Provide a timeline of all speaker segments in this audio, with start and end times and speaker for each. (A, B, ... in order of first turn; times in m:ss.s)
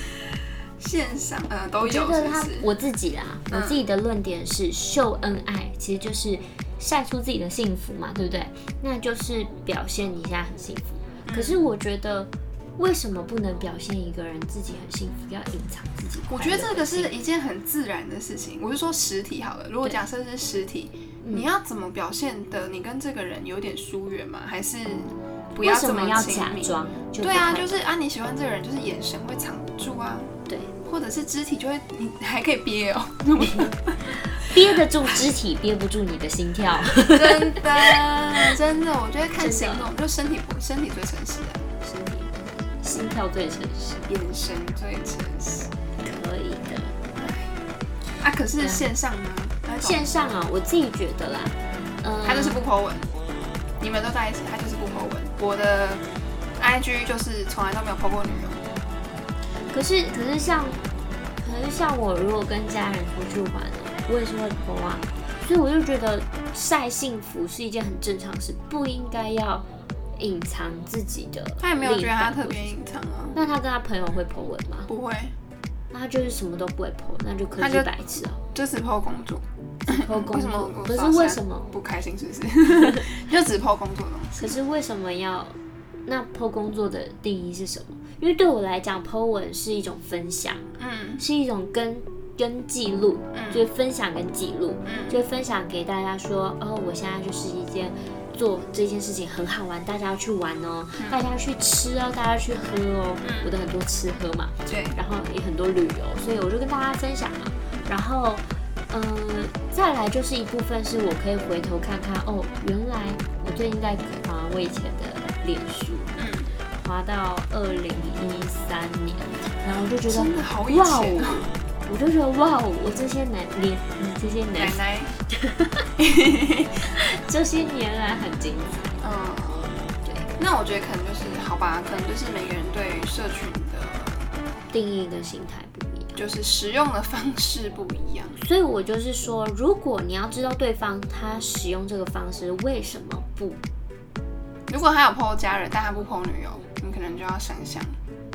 0:00.8-0:02.7 A
0:01.8-0:17.1 B
0:03.5-0:03.8 A
0:11.3-0:11.6 A
0:16.3-0:35.3 A
0:25.6-0:27.8 B
0:33.4-0:37.9 B
0:37.1-0:41.7 A
0:39.4-0:39.9 B
0:41.8-0:44.1 B
0:44.1-0:45.7 A
0:46.0-0:47.0 B
0:47.1-0:47.6 A
0:48.2-0:50.1 A
0:48.6-0:48.9 B
0:49.8-0:52.6 B
0:52.2-0:53.1 A
0:53.8-0:56.0 A
0:56.6-0:58.7 A
0:59.7-1:00.8 B
1:01.4-1:12.8 B
1:11.6-1:13.4 A
1:13.4-1:14.9 B
1:14.9-1:15.4 A
1:15.9-1:18.4 B
1:17.6-1:18.0 A
1:18.5-1:24.5 A
1:19.9-1:21.7 B
1:22.8-1:23.1 B
1:24.4-1:30.6 B
1:30.8-1:31.2 A
1:31.2-1:56.2 B
1:33.3-1:33.7 A
1:34.8-1:35.2 A
1:43.2-1:43.5 A
1:44.7-1:45.0 A
1:56.2-1:56.5 A
1:56.7-2:04.8 B
2:00.1-2:01.5 A
2:04.6-2:05.1 A
2:05.3-2:05.8 B
2:06.0-2:06.8 A
2:07.0-2:09.0 B
2:09.0-2:09.8 A
2:10.4-2:14.3 A
2:14.7-2:16.2 B
2:16.2-2:18.4 A
2:18.4-2:23.6 B
2:24.7-2:28.0 A